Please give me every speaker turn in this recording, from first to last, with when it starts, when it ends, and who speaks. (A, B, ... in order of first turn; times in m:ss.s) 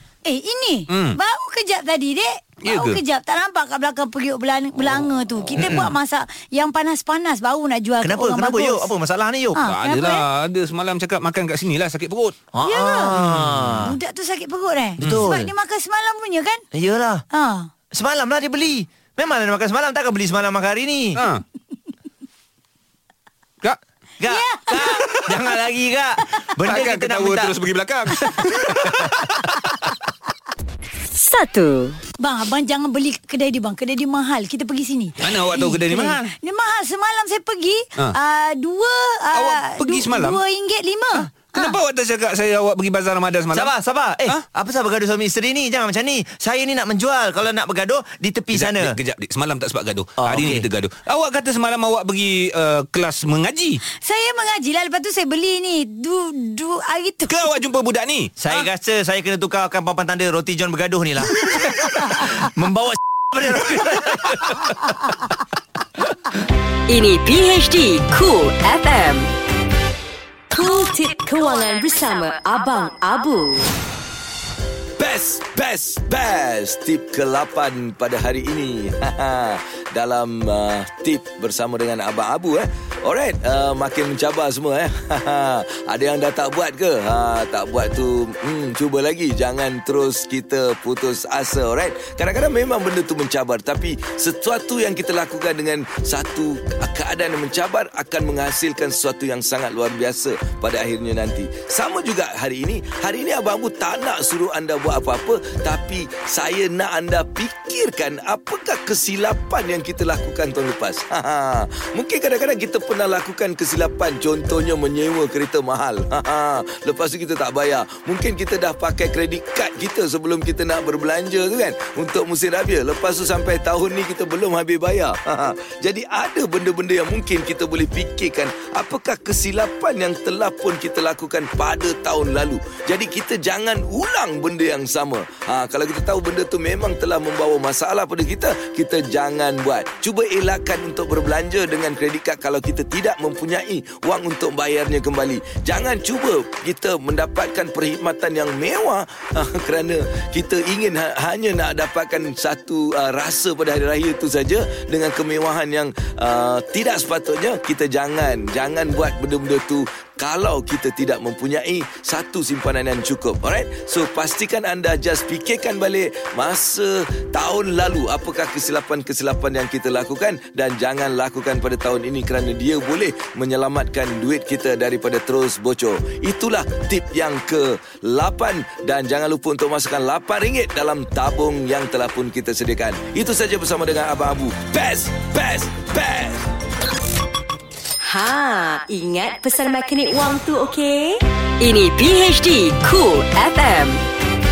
0:00.2-0:08.9 A
0:00.9-0:01.2 B
0:02.6-0:03.0 B
0:05.6-0:05.9 C
0:05.6-0:05.9 B
0:08.0-0:09.6 C
0:09.6-0:10.2 A
0:09.6-0:12.3 B
0:12.5-0:13.9 C
0:12.6-0:13.1 A
0:13.2-0:13.8 B
0:13.8-0:16.6 A
0:15.0-0:15.3 B
0:15.0-0:15.5 C
0:16.7-0:17.2 C
0:17.3-0:17.7 A
0:17.9-0:21.2 C
0:21.1-0:21.4 B
0:24.2-0:27.6 C
0:24.3-0:25.2 A
0:25.1-0:25.3 B
0:26.6-0:29.7 B
0:31.1-0:32.0 D
0:32.2-0:41.8 A
0:35.2-0:36.2 B
0:39.3-0:40.4 B
0:41.2-0:43.7 B
0:43.5-0:49.0 C
0:48.5-0:53.8 B
0:50.2-0:50.7 C
0:54.0-0:57.5 A
0:57.3-0:58.3 B
0:58.4-1:04.8 C
1:06.9-1:09.3 D
1:10.5-1:13.7 D
1:15.0-3:06.4 E
3:08.0-3:14.0 D